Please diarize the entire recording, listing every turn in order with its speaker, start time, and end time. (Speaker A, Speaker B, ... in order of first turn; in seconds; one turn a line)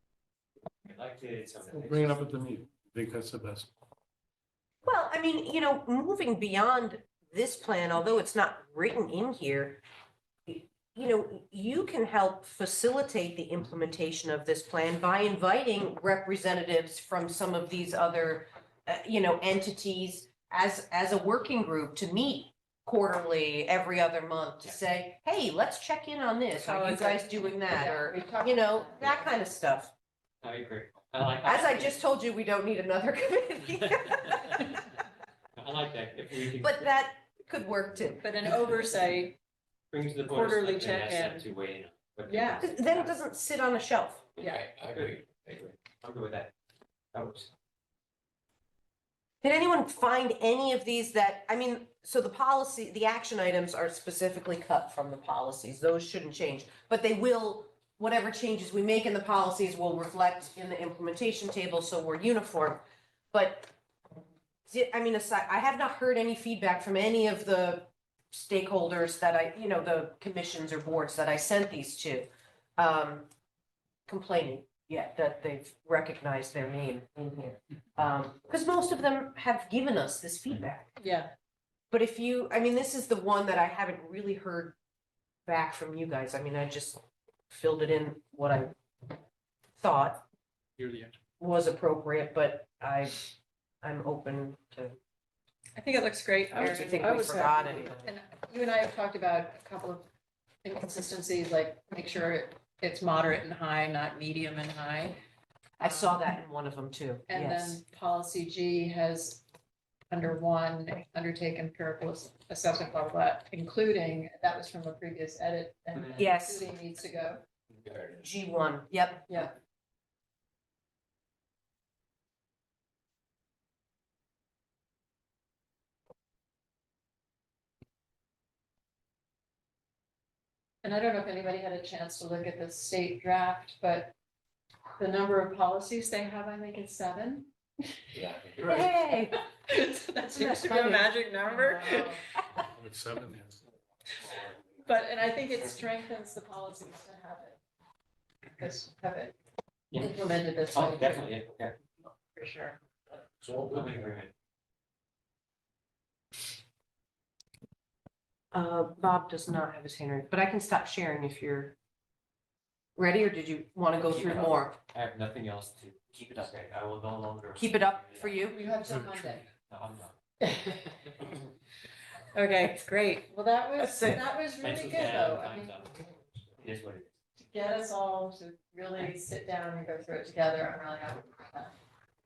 Speaker A: 0.8-2.2
Speaker B: 1.7-3.7
Speaker C: 4.8-9.8
Speaker C: 10.5-29.9
Speaker D: 26.6-29.3
Speaker A: 30.4-32.0
Speaker C: 31.4-34.8
Speaker A: 34.1-34.5
Speaker A: 35.6-36.9
Speaker C: 36.6-38.2
Speaker D: 38.2-39.4
Speaker A: 39.9-43.2
Speaker D: 40.3-41.5
Speaker D: 42.3-42.6
Speaker C: 42.6-44.2
Speaker A: 44.4-46.5
Speaker D: 44.4-44.7
Speaker A: 47.1-47.5
Speaker C: 49.4-62.8
Speaker C: 63.3-63.7
Speaker C: 64.7-73.3
Speaker C: 74.1-80.9
Speaker D: 81.0-81.3
Speaker C: 81.9-84.8
Speaker C: 85.5-88.7
Speaker C: 89.8-90.2
Speaker B: 90.8-91.1
Speaker C: 91.4-93.2
Speaker C: 93.8-95.0
Speaker D: 95.8-100.0
Speaker C: 96.5-98.0
Speaker D: 100.6-105.2
Speaker D: 105.8-106.2
Speaker C: 105.8-107.8
Speaker D: 107.3-109.4
Speaker D: 110.1-117.4
Speaker C: 116.2-116.7
Speaker C: 118.0-119.3
Speaker D: 119.3-119.5
Speaker D: 130.8-134.1
Speaker D: 135.0-137.5
Speaker C: 138.2-139.3
Speaker D: 139.7-142.2
Speaker C: 140.3-142.4
Speaker B: 142.6-143.6
Speaker D: 144.8-147.6
Speaker D: 148.6-149.3
Speaker D: 149.9-151.3
Speaker A: 150.7-151.7
Speaker D: 152.3-152.8
Speaker B: 153.5-153.8
Speaker A: 153.5-154.3
Speaker C: 158.5-161.7
Speaker C: 163.0-164.8
Speaker A: 164.0-168.4
Speaker C: 167.5-168.7
Speaker D: 168.4-169.5
Speaker A: 169.6-170.1
Speaker D: 170.4-170.9
Speaker D: 172.3-175.7
Speaker A: 174.6-176.0
Speaker A: 176.6-177.1
Speaker D: 177.4-181.7